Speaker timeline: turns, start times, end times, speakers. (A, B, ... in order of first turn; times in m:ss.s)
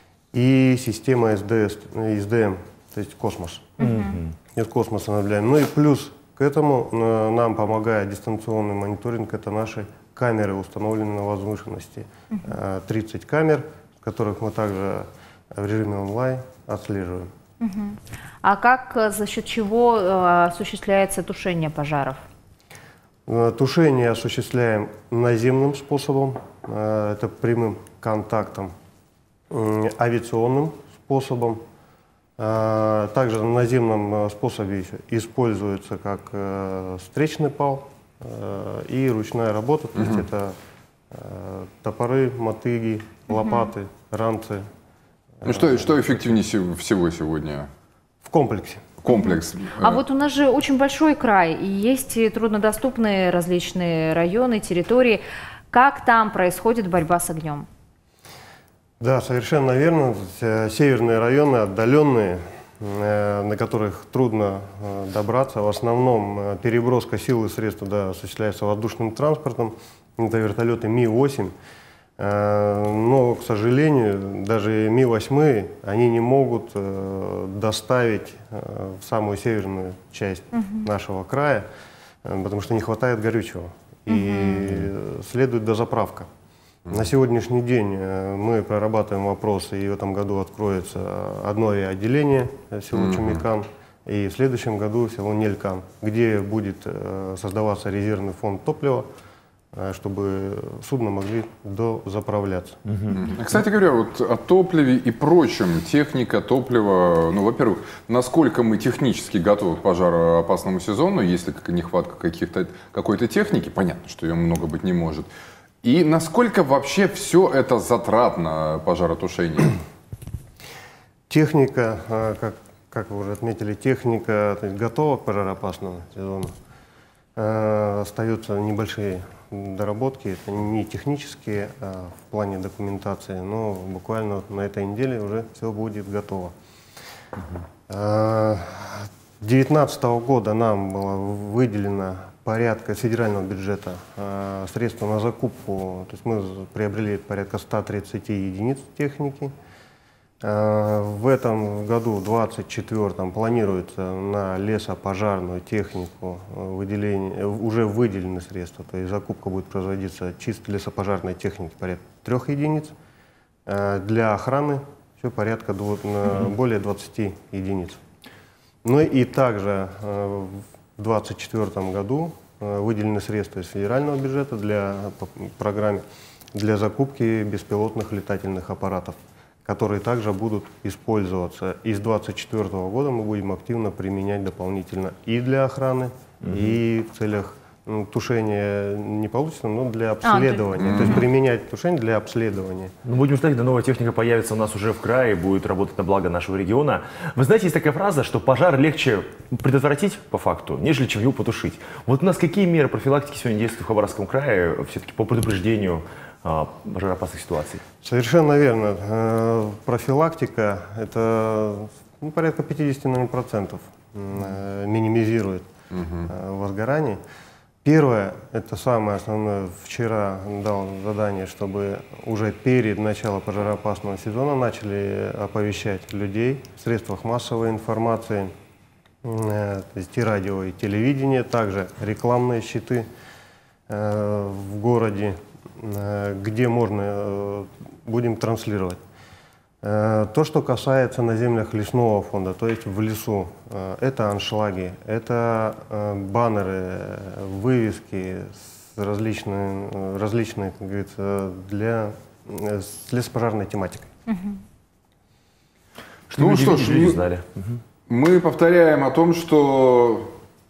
0:00.3-0:03.8 A
0:03.8-0:04.2 B
0:03.8-0:04.3 C
0:04.5-0:17.3 A
0:17.6-0:22.2 B
0:23.2-0:28.7 A
0:29.5-0:31.6 A
0:32.4-0:40.5 A
0:41.1-0:44.6 A
0:43.3-0:43.7 B
0:45.4-0:46.0 A
0:45.4-0:47.7 D
0:48.2-0:48.8 A
0:49.0-0:50.0 D
0:49.1-0:55.2 B
0:55.7-0:57.7 B
0:59.0-1:11.5 A
1:12.2-1:21.6 A
1:20.5-1:20.8 B
1:22.2-1:26.3 A
1:24.1-1:24.7 B
1:26.9-1:39.1 A
1:33.0-1:33.3 D
1:39.7-1:43.1 A
1:43.1-1:55.3 D
1:55.8-1:59.8 D
2:01.3-2:06.5 A
2:07.4-2:16.5 A
2:17.9-2:29.5 A
2:30.4-2:42.9 A
2:43.6-2:48.0 A
2:48.8-2:56.0 A
2:56.5-3:12.9 A
3:06.4-3:06.7 C
3:10.2-3:11.2 B
3:10.8-3:11.1 D
3:13.0-3:27.8 C
3:28.0-3:35.7 A
3:35.9-3:36.3 D
3:36.2-3:37.2 A
3:37.8-3:48.5 A
3:49.2-3:53.1 A
3:53.9-3:59.0 A
3:59.8-4:14.1 A
4:14.3-4:14.6 B
4:16.3-4:17.8 C
4:16.4-4:17.2 D
4:18.1-4:20.3 D